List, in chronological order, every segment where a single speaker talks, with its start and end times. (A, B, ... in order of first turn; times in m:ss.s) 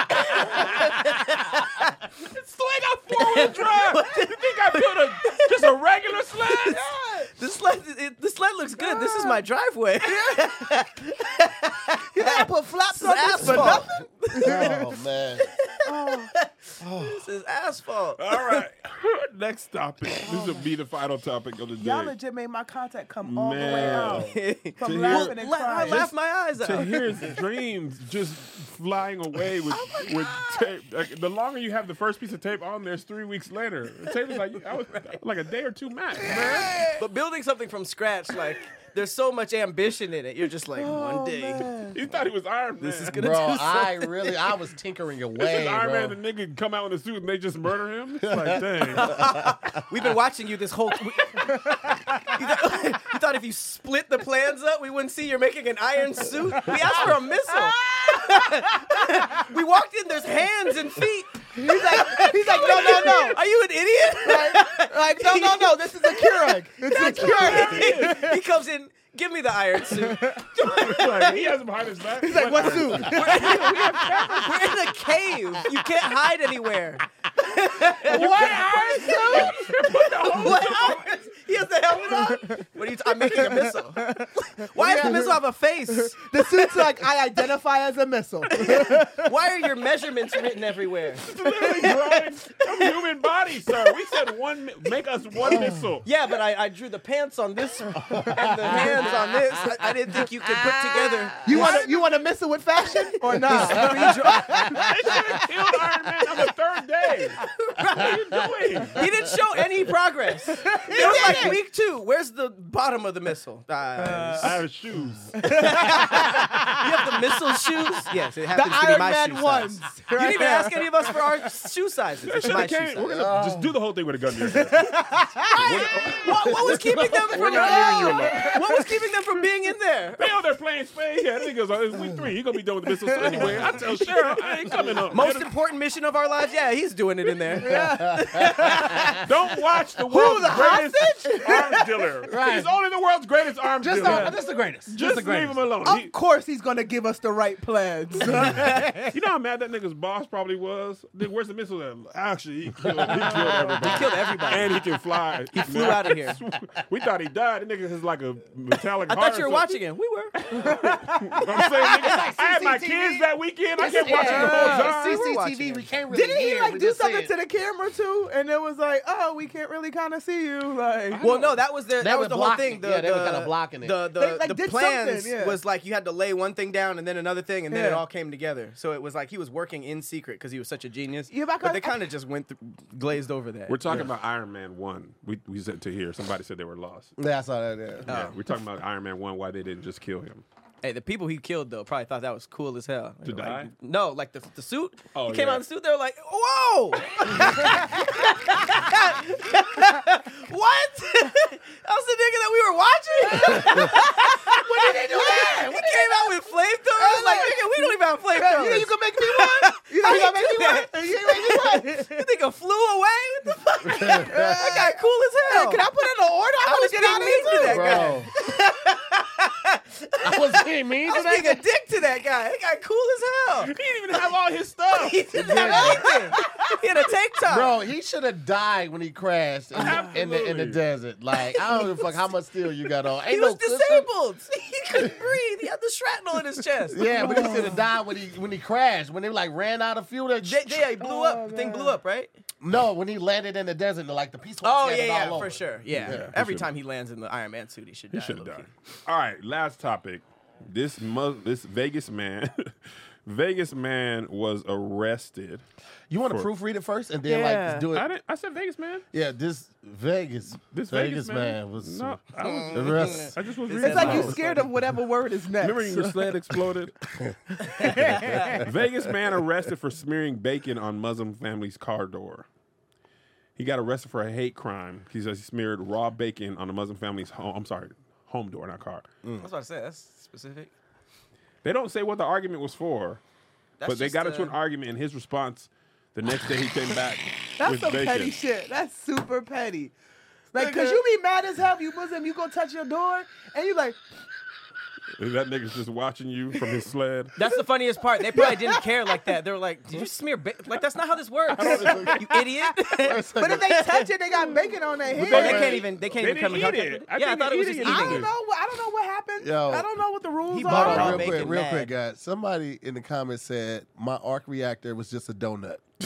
0:00.3-0:01.9 A
0:00.3-0:00.6 B
0:02.3-0:06.8 C
0:03.1-0:05.7 A
0:06.5-0:06.7 A
0:06.7-0:07.3 B
0:07.4-0:14.9 A
0:08.8-0:09.4 B
0:10.0-0:10.6 B
0:12.1-0:14.8 B
0:14.4-0:15.5 D
0:15.4-0:18.6 A
0:15.8-0:16.3 B
0:18.2-0:22.1 C
0:20.2-0:20.6 B
0:21.8-0:26.1 B
0:23.2-0:36.8 C
0:23.7-0:27.0 A
0:34.9-0:35.2 A
0:36.2-0:37.0 B
0:37.0-0:41.7 A
0:40.8-0:42.0 B
0:41.9-0:43.2 C
0:42.8-0:44.5 A
0:43.1-0:46.2 D
0:45.4-0:49.2 C
0:48.2-0:49.8 D
0:49.0-1:11.5 A
0:51.4-0:52.2 B
0:57.6-0:59.0 B
1:01.6-1:03.4 B
1:04.2-1:08.4 B
1:07.1-1:08.3 C
1:09.9-1:10.5 B
1:10.6-1:14.4 C
1:12.2-1:14.7 B
1:13.0-1:19.5 A
1:18.1-1:19.5 D
1:18.1-1:21.1 C
1:18.1-1:19.5 B
1:20.2-1:26.9 A
1:22.0-1:25.4 B
1:26.0-1:29.3 B
1:28.5-1:32.9 A
1:31.2-1:36.0 C
1:35.6-1:41.9 A
1:38.0-1:39.6 D
1:40.4-1:41.8 D
1:41.4-1:45.4 B
1:43.4-1:44.8 A
1:43.5-1:45.2 D
1:44.8-1:47.4 C
1:47.6-1:48.2 A
1:47.9-1:49.0 C
1:48.9-1:54.5 A
1:50.5-1:51.6 B
1:54.0-1:54.6 B
1:54.4-1:55.4 C
1:55.4-1:57.3 B
1:55.4-2:03.1 A
1:58.5-2:01.2 B
2:02.2-2:04.9 C
2:03.0-2:03.7 D
2:04.5-2:05.9 B
2:05.5-2:08.5 C
2:05.6-2:10.3 A
2:06.4-2:08.6 D
2:07.5-2:08.8 B
2:10.2-2:15.5 C
2:13.1-2:13.6 B
2:15.1-2:19.2 A
2:17.5-2:19.2 B
2:17.6-2:19.1 D
2:19.2-2:26.1 C
2:20.1-2:21.9 B
2:22.2-2:22.7 D
2:23.8-2:25.6 D
2:24.0-2:24.3 B
2:25.8-2:29.1 B
2:29.0-2:39.8 C
2:32.8-2:34.0 D
2:33.8-2:34.8 A
2:35.5-2:36.4 A
2:39.1-2:40.5 A
2:40.4-2:45.2 C
2:40.6-2:41.4 B
2:41.6-2:47.3 D
2:44.1-2:44.9 B
2:44.2-2:45.9 A
2:46.1-2:51.3 B
2:51.1-2:51.6 C
2:51.2-3:03.8 A
2:52.0-2:54.0 D
2:54.1-2:55.6 B
2:57.7-2:58.0 B
3:01.3-3:02.0 B
3:03.7-3:07.1 C
3:07.2-3:08.1 D
3:08.1-3:10.4 C
3:08.1-3:08.3 A
3:10.8-3:35.8 A
3:13.2-3:13.7 C
3:15.1-3:15.6 C
3:23.3-3:26.3 D
3:27.0-3:32.2 B
3:33.9-3:34.8 D
3:34.2-3:34.9 B
3:35.4-3:38.2 B
3:36.6-3:43.7 A
3:37.6-3:38.3 D
3:40.2-3:41.6 D
3:43.6-3:45.2 C
3:44.9-3:47.7 A
3:45.3-3:46.1 D
3:45.4-3:46.4 B
3:47.4-3:54.1 D
3:49.7-3:50.8 C
3:53.2-3:57.7 A
3:56.9-4:00.9 D
3:57.0-3:57.8 B
4:00.4-4:02.3 A
4:01.0-4:02.0 B
4:02.6-4:06.3 D
4:04.6-4:08.7 A
4:05.9-4:06.7 C
4:08.1-4:15.6 C
4:16.1-4:18.1 D
4:17.2-4:17.9 A
4:17.9-4:19.0 C
4:19.1-4:23.3 D
4:20.7-4:24.7 C
4:22.4-4:24.6 A
4:23.8-4:26.2 B
4:25.6-4:26.9 C
4:27.2-4:28.7 D
4:27.7-4:28.6 A
4:27.8-4:32.5 C
4:28.0-4:28.2 B
4:33.6-4:39.0 C
4:39.4-4:40.7 A
4:41.6-4:43.2 C
4:43.8-4:44.5 A
4:43.8-4:48.3 C
4:47.6-4:49.9 B
4:50.5-4:54.0 B
4:50.6-4:51.0 A
4:55.2-4:57.3 C
4:57.4-5:04.1 A
4:58.2-4:59.4 B
5:01.5-5:02.2 C
5:01.6-5:02.5 B
5:02.9-5:03.9 D
5:03.3-5:05.8 B
5:05.1-5:08.3 C
5:05.2-5:08.3 A
5:07.8-5:11.4 B
5:09.4-5:09.9 D
5:10.5-5:11.9 A
5:10.6-5:15.8 D
5:10.8-5:11.4 C